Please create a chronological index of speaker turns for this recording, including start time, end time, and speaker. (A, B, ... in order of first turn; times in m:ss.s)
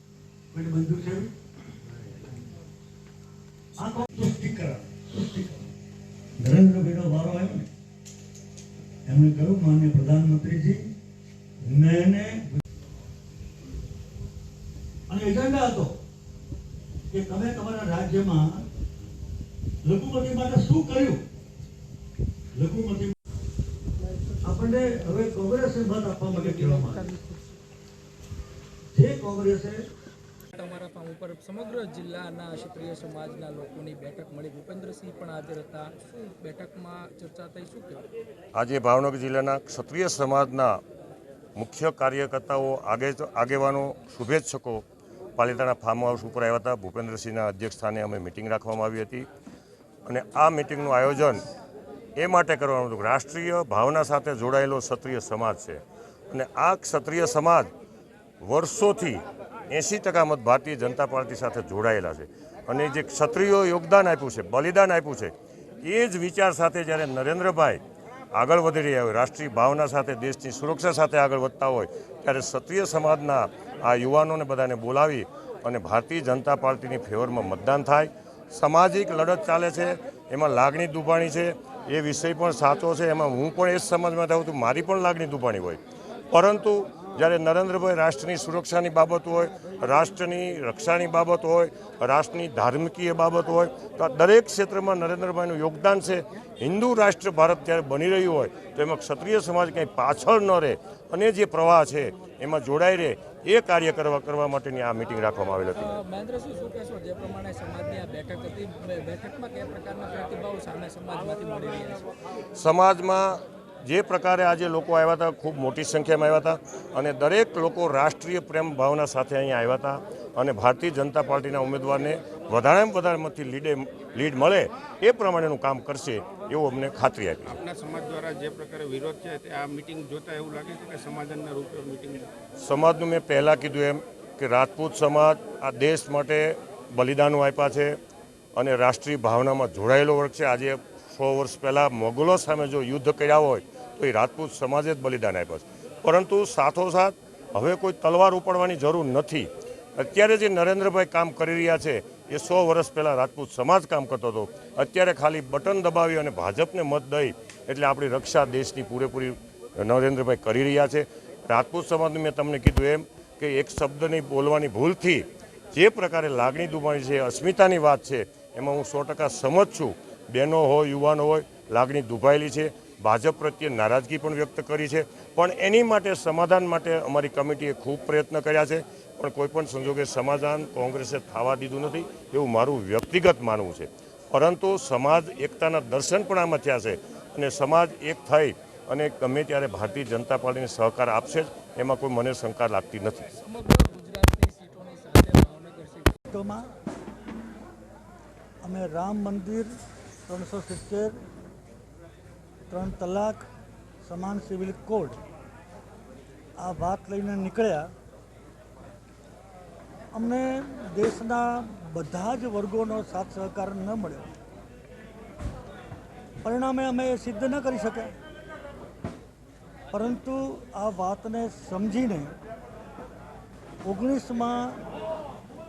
0:00.5-0:01.3 A
0:03.8-0:05.7 A
0:06.4-0:07.7 A
0:09.0-0:10.9 A
0:11.6-0:12.6 A
0:15.1-0:16.0 A
0:17.1-0:18.6 A
0:19.8-0:21.2 A
0:22.6-0:23.2 A
0:24.4-0:27.1 A
0:26.3-0:27.5 B
0:28.9-0:29.8 A
0:30.5-0:38.1 B
0:38.5-0:40.8 C
0:41.6-0:44.8 C
0:45.4-0:49.3 C
0:50.0-0:51.4 C
0:52.2-0:57.7 C
0:58.4-1:07.8 C
1:08.3-1:25.8 C
1:26.3-1:46.0 C
1:45.7-1:52.0 B
1:52.5-2:07.6 C
2:07.4-2:12.3 D
2:12.6-2:18.0 C
2:18.6-3:13.2 C
3:13.3-3:16.2 B
3:16.3-3:16.7 A
3:18.6-3:19.7 A
3:20.3-3:21.2 A
3:22.7-3:23.5 A
3:24.0-3:25.2 A
3:26.6-3:27.9 A
3:30.1-3:34.3 A
3:36.4-3:38.1 A
3:39.9-3:42.3 A
3:43.8-3:44.8 A